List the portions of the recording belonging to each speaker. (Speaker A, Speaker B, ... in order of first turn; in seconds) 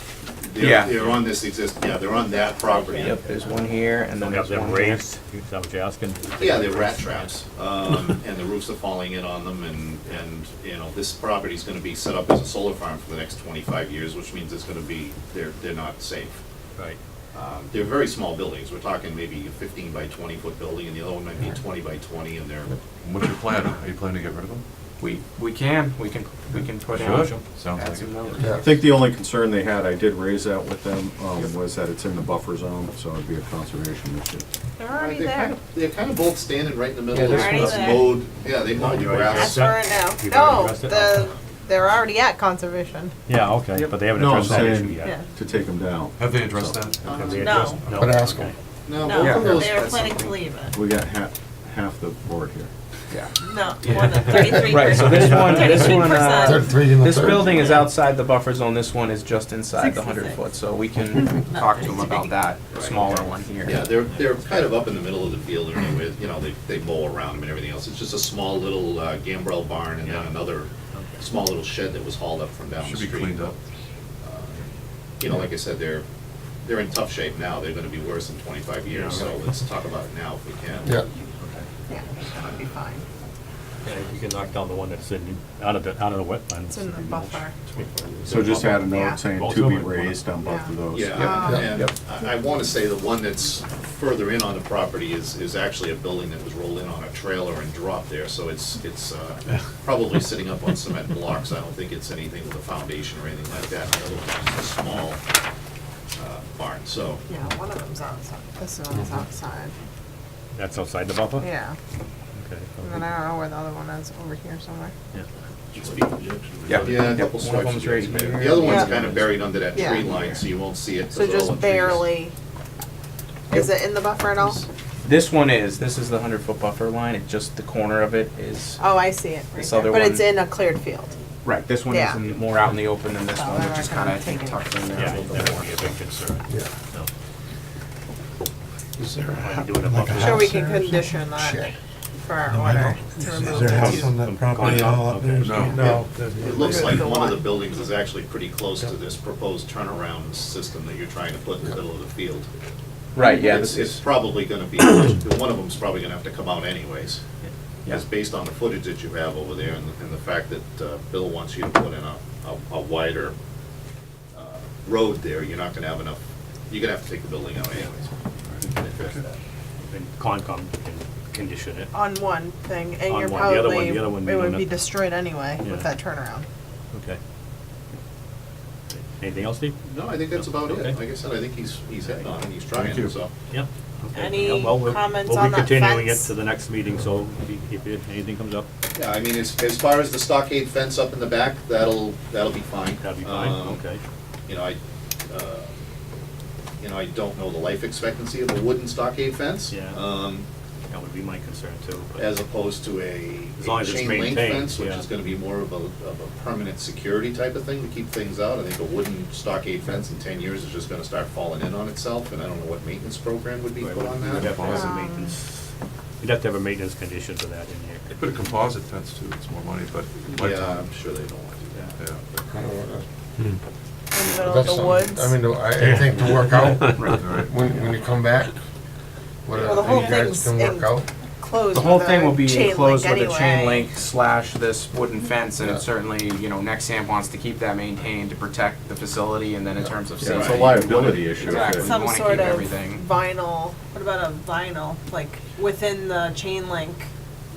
Speaker A: 0.4-3.5, 6.4-16.4, 17.3-22.7, 34.9-39.7, 47.0-47.7, 48.9-49.7, 62.7-73.5, 74.2-74.6, 75.2-76.0, 76.6-81.0, 90.9-105.2, 106.2-107.2, 115.8-116.0, 116.8-122.1, 145.8-152.5, 153.2-157.2, 157.9-163.3, 164.3-168.1, 179.9-183.3, 188.9-193.8, 194.5-195.7, 196.8-200.5, 202.2-214.6, 220.3-222.7, 229.6-230.1, 240.3-240.6
Speaker B: 0.6-1.1, 2.9-5.0, 25.0-28.8, 37.1-38.1, 43.7-44.6, 49.2-50.4, 54.4-63.8, 91.0-91.9, 116.7-119.2, 125.0-128.8, 129.5-130.3, 131.4-135.9, 153.2-154.0, 226.8-227.3, 231.7-243.0
Speaker C: 4.2-7.3, 27.0-27.4, 38.8-41.3, 43.3-45.2, 47.0-48.5, 70.0-70.3, 78.9-79.3, 83.8-90.2, 110.5-111.5, 112.4-113.1, 134.9-137.1, 139.4-140.6, 143.4-146.0, 168.6-169.3, 169.8-171.9, 173.1-174.8, 175.6-175.9, 176.9-177.2, 178.9-179.8, 180.4-181.0, 183.5-188.7, 193.0-194.0, 199.7-200.0, 200.9-202.3, 203.6-205.1, 213.8-215.6, 216.2-218.2
Speaker D: 23.0-24.6, 27.0-28.4, 46.2-47.0, 47.8-48.5, 72.8-73.5, 115.7-117.2, 143.4-143.9, 145.4-146.0, 214.4-214.9, 218.1-220.8, 225.9-227.6, 229.7-230.1
Speaker E: 28.4-28.6, 48.0-48.5, 55.7-57.6, 139.9-141.7, 142.5-142.9, 143.6-146.9, 222.5-223.1, 224.4-228.5, 229.5-231.1
Speaker F: 28.6-34.5, 44.1-46.9, 50.7-52.7, 88.2-91.1, 240.2-242.1
Speaker G: 34.8-35.5, 37.2-38.1, 39.3-43.1, 45.0-45.2, 47.3-47.9, 49.0-50.8, 53.4-57.8, 59.7-60.4, 61.4-62.3, 81.9-83.0, 86.7-87.6, 88.8-89.2, 90.4-91.7, 107.3-109.7, 111.4-111.8, 112.8-114.9, 118.6-119.0, 119.7-120.1, 121.1-122.3, 123.5-124.6, 128.8-131.1, 131.9-132.2, 133.2-134.7, 140.1-141.7, 142.2-144.2, 146.7-147.5, 171.9-176.5, 184.1-186.3, 214.6-215.3, 224.1-225.4, 229.7-233.9, 241.4-247.1